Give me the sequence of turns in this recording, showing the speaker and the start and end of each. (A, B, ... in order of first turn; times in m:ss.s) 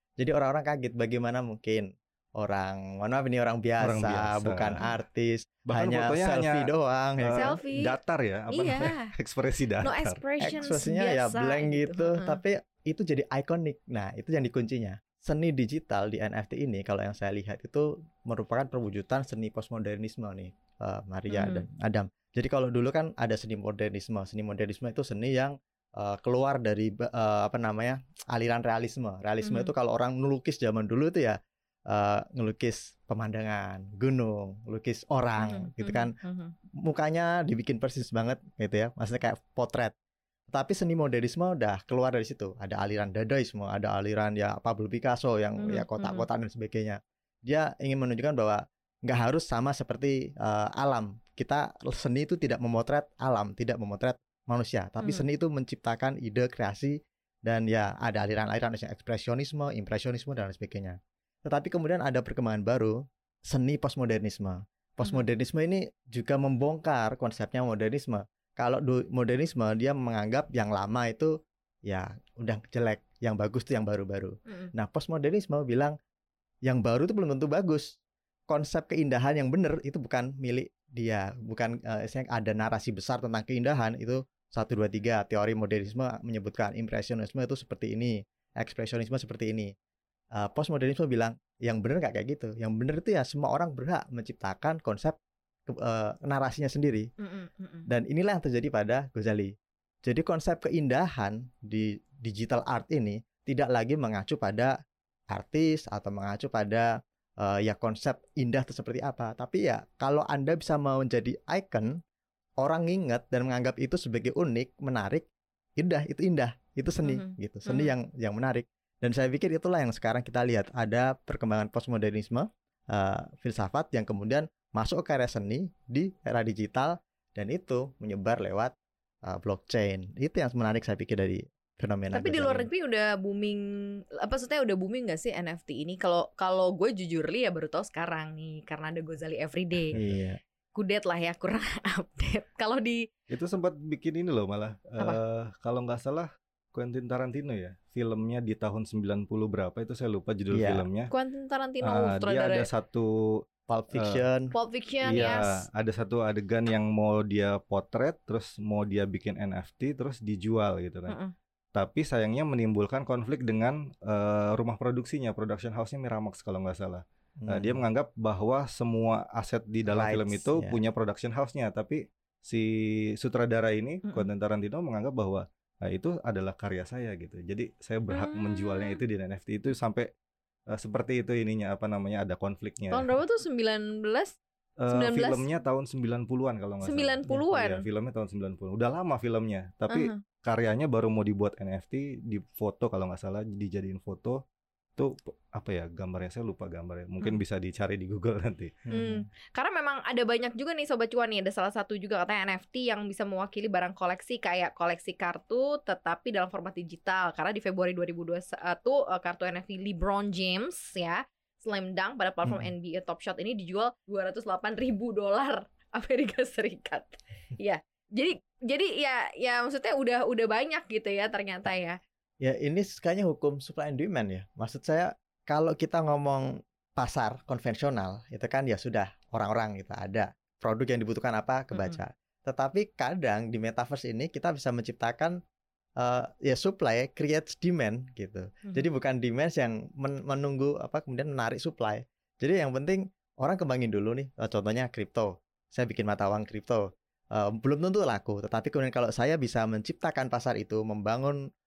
0:00.2-0:07.6 A
0:03.8-0:04.8 B
0:05.7-0:10.2 B
0:07.3-0:07.9 C
0:08.5-0:09.1 C
0:09.8-0:12.4 C
0:10.4-0:31.4 A
0:21.3-0:21.6 C
0:29.4-0:29.7 C
0:31.9-0:36.1 A
0:35.4-0:36.5 C
0:36.8-0:39.9 A
0:40.5-1:11.3 A
0:45.6-0:46.2 C
1:11.8-1:15.9 A
1:14.5-1:14.7 C
1:16.6-1:17.9 A
1:18.5-1:29.7 A
1:30.4-1:37.1 A
1:37.2-1:37.9 C
1:37.9-1:39.5 A
1:40.0-1:44.7 A
1:45.3-1:46.9 A
1:47.4-1:51.9 A
1:52.6-1:55.2 A
1:55.8-2:08.7 A
1:57.0-1:57.9 C
2:09.2-2:12.7 A
2:12.1-2:19.9 C
2:19.9-2:20.4 A
2:20.7-2:23.0 C
2:23.3-2:31.1 B
2:30.5-2:30.8 A
2:31.1-2:32.7 C
2:31.8-2:34.2 B
2:33.7-2:34.5 A
2:34.5-2:35.6 C
2:35.0-2:41.2 B
2:41.1-2:41.3 C
2:41.7-3:00.1 B
2:47.4-2:47.8 A
2:49.9-2:50.8 A
2:58.1-2:59.0 C
3:00.7-3:03.1 B
3:02.9-3:04.3 C
3:04.8-3:14.4 B
3:04.9-3:05.5 C
3:06.8-3:07.8 C
3:09.9-3:10.2 C
3:15.0-3:18.8 B
3:18.9-3:19.2 A
3:18.9-3:42.0 C
3:42.4-3:55.4 A
3:51.7-3:52.0 C
3:56.0-4:11.4 A